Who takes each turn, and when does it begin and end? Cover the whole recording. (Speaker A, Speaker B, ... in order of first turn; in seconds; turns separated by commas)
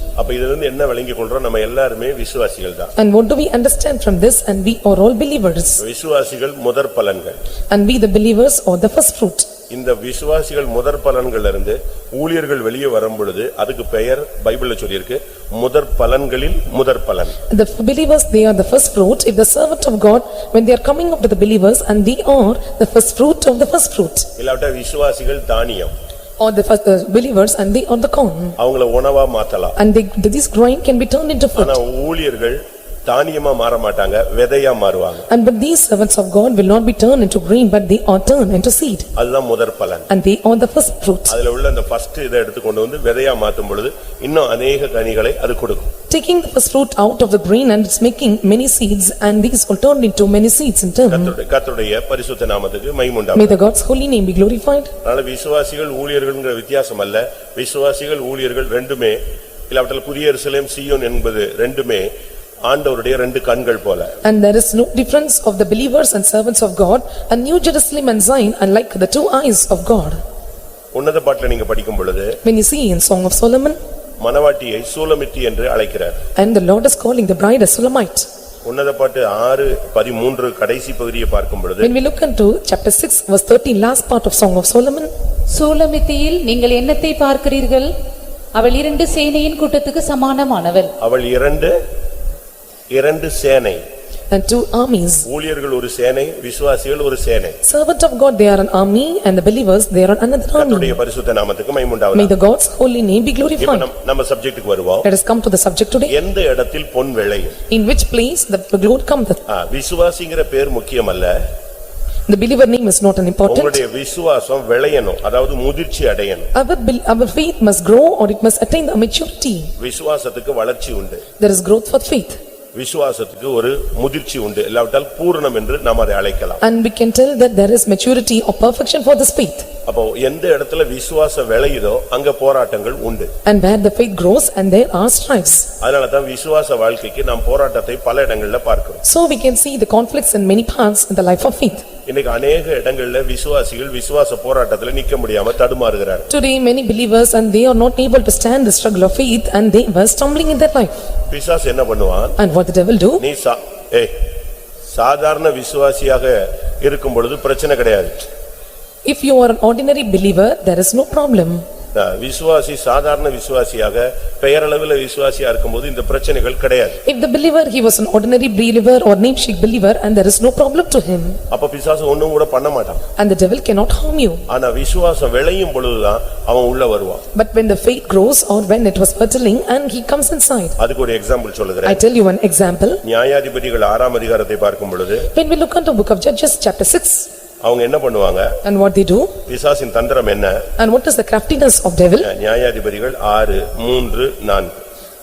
Speaker A: 0.1-2.9, Speaker B: 3.0-5.8, Speaker A: 5.8-7.3, Speaker B: 7.7-9.5, Speaker A: 9.7-17.4, Speaker B: 17.5-24.3, Speaker A: 24.4-25.9, Speaker B: 26.4-28.6, Speaker A: 28.6-29.8, Speaker B: 29.8-31.8, Speaker A: 31.6-35.3, Speaker B: 35.3-39.1, Speaker A: 39.1-40.1, Speaker B: 40.1-41.3, Speaker A: 41.3-45.9, Speaker B: 46.1-51.3, Speaker A: 51.1-53.5, Speaker B: 53.3-54.9, Speaker A: 55.0-62.1, Speaker A: 62.6-64.1, Speaker B: 64.2-70.2, Speaker A: 70.9-72.4, Speaker B: 72.4-73.8, Speaker A: 74.2-76.2, Speaker B: 76.3-78.3, Speaker A: 78.6-81.9, Speaker B: 81.8-85.1, Speaker C: 85.5-87.9, Speaker C: 88.5-90.9, Speaker A: 91.0-91.7, Speaker A: 92.9-93.8, Speaker B: 94.3-95.3, Speaker A: 95.3-97.6, Speaker B: 97.6-101.0, Speaker A: 100.5-102.3, Speaker B: 102.1-103.9, Speaker A: 103.6-105.0, Speaker B: 105.0-106.1, Speaker A: 106.1-107.6, Speaker B: 107.7-109.4, Speaker A: 109.5-111.3, Speaker B: 112.3-113.8, Speaker A: 113.5-116.5, Speaker B: 116.5-119.7, Speaker A: 119.8-121.2, Speaker B: 121.4-122.4, Speaker A: 122.7-126.6, Speaker B: 126.6-129.7, Speaker A: 129.8-133.3, Speaker B: 133.4-135.7, Speaker A: 135.8-139.0, Speaker B: 139.0-141.8, Speaker A: 142.1-146.3, Speaker B: 146.3-151.1, Speaker A: 151.3-152.4, Speaker B: 152.4-153.2, Speaker A: 153.2-154.1, Speaker A: 154.9-158.2, Speaker B: 159.0-161.6, Speaker A: 161.9-167.0, Speaker B: 167.0-171.4, Speaker A: 171.5-173.0, Speaker B: 173.2-174.4, Speaker A: 174.5-177.2, Speaker B: 177.3-180.8, Speaker A: 180.8-182.0, Speaker B: 181.8-183.0, Speaker A: 183.0-185.3, Speaker B: 185.3-187.3, Speaker A: 187.6-188.5, Speaker B: 188.6-189.3, Speaker A: 189.4-190.6, Speaker B: 190.8-192.3, Speaker A: 192.2-194.8